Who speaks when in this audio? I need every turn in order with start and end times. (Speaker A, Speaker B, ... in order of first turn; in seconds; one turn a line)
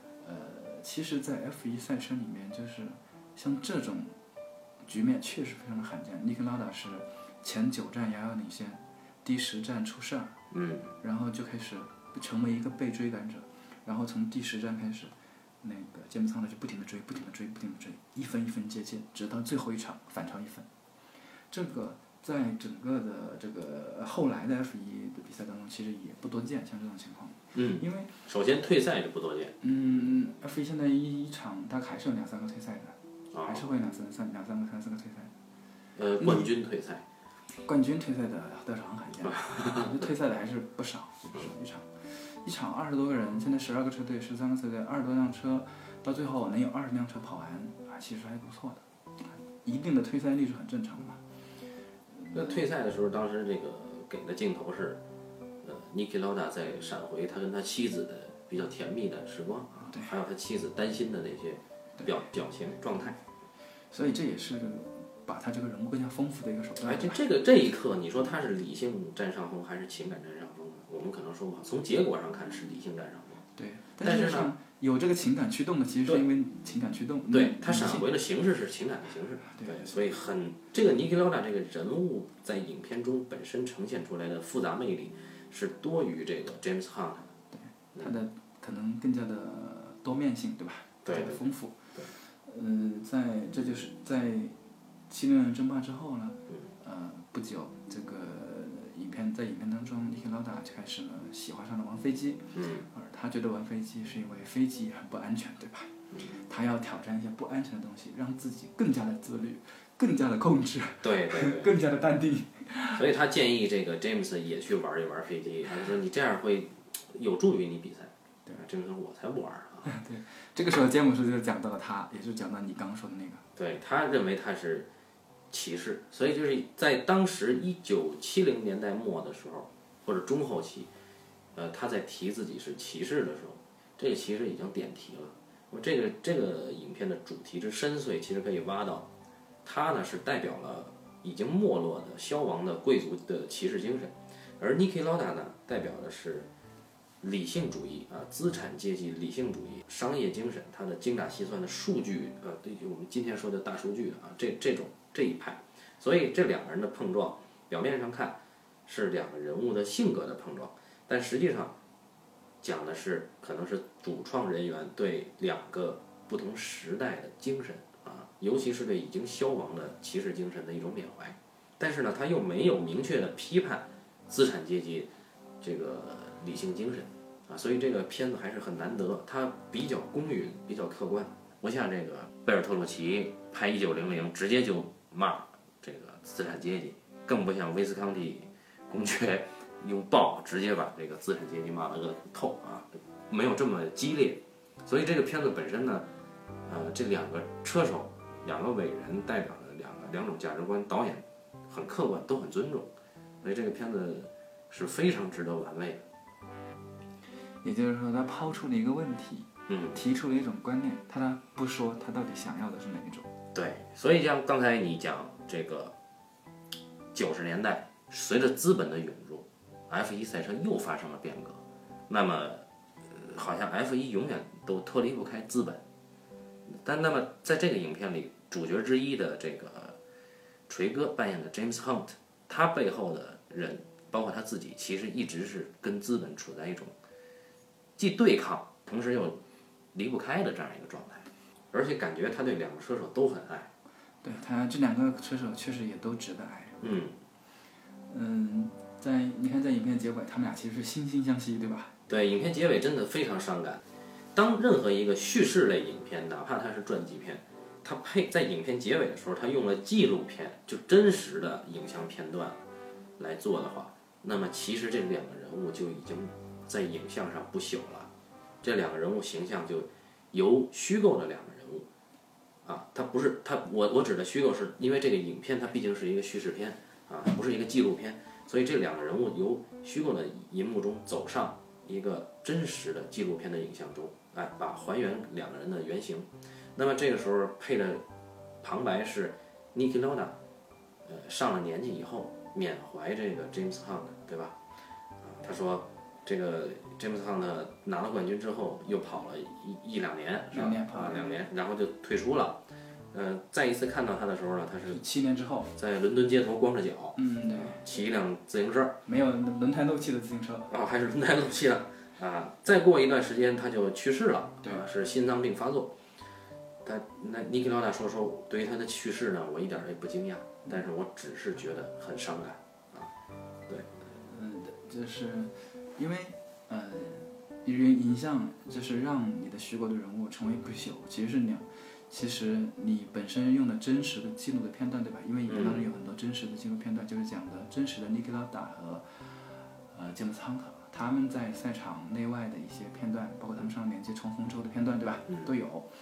Speaker A: 0.2-4.1
Speaker A: 4.8-10.3
Speaker B: 10.5-10.9
Speaker A: 11.0-20.7
Speaker A: 21.5-28.1
Speaker B: 27.5-29.5
Speaker A: 29.6-35.3
Speaker B: 33.3-33.7
Speaker B: 36.0-37.0
Speaker A: 36.2-36.5
Speaker A: 37.6-48.8
Speaker B: 39.2-40.1
Speaker A: 49.6-51.2
Speaker A: 52.2-52.6
Speaker B: 52.3-55.0
Speaker B: 55.6-63.2
Speaker A: 59.8-60.1
Speaker A: 63.9-67.2
Speaker B: 66.8-73.4
Speaker A: 73.5-78.1
Speaker B: 74.0-74.5
Speaker B: 77.3-87.3
Speaker A: 79.5-80.1
Speaker A: 87.5-94.5
Speaker B: 91.0-91.4
Speaker A: 95.1-113.0
Speaker B: 102.5-102.9
Speaker B: 111.0-111.7
Speaker B: 112.9-119.9
Speaker A: 119.8-123.4
Speaker B: 123.5-124.9
Speaker B: 125.5-130.9
Speaker B: 131.5-139.1
Speaker B: 139.6-146.5
Speaker B: 147.2-161.7
Speaker B: 162.6-175.1
Speaker B: 175.6-196.1
Speaker B: 196.7-202.9
Speaker B: 203.4-206.0
Speaker A: 207.6-213.3
Speaker B: 209.7-210.0
Speaker B: 213.5-215.9
Speaker B: 217.1-225.8
Speaker B: 226.7-230.0
Speaker B: 230.7-236.9
Speaker B: 238.0-239.4
Speaker B: 239.9-243.7
Speaker A: 244.2-246.8
Speaker B: 246.8-247.1
Speaker A: 248.1-251.9
Speaker B: 252.1-253.8
Speaker B: 254.3-262.6
Speaker B: 263.2-268.1
Speaker B: 268.6-271.9
Speaker B: 272.6-288.0
Speaker B: 288.6-290.4
Speaker B: 291.0-294.6
Speaker B: 295.2-305.0
Speaker A: 300.5-301.4
Speaker A: 304.9-305.7
Speaker B: 305.8-309.0
Speaker A: 307.1-307.8
Speaker A: 309.0-310.7
Speaker B: 310.7-315.9
Speaker B: 316.8-323.1
Speaker A: 324.0-339.3
Speaker B: 335.5-335.8
Speaker A: 339.9-345.9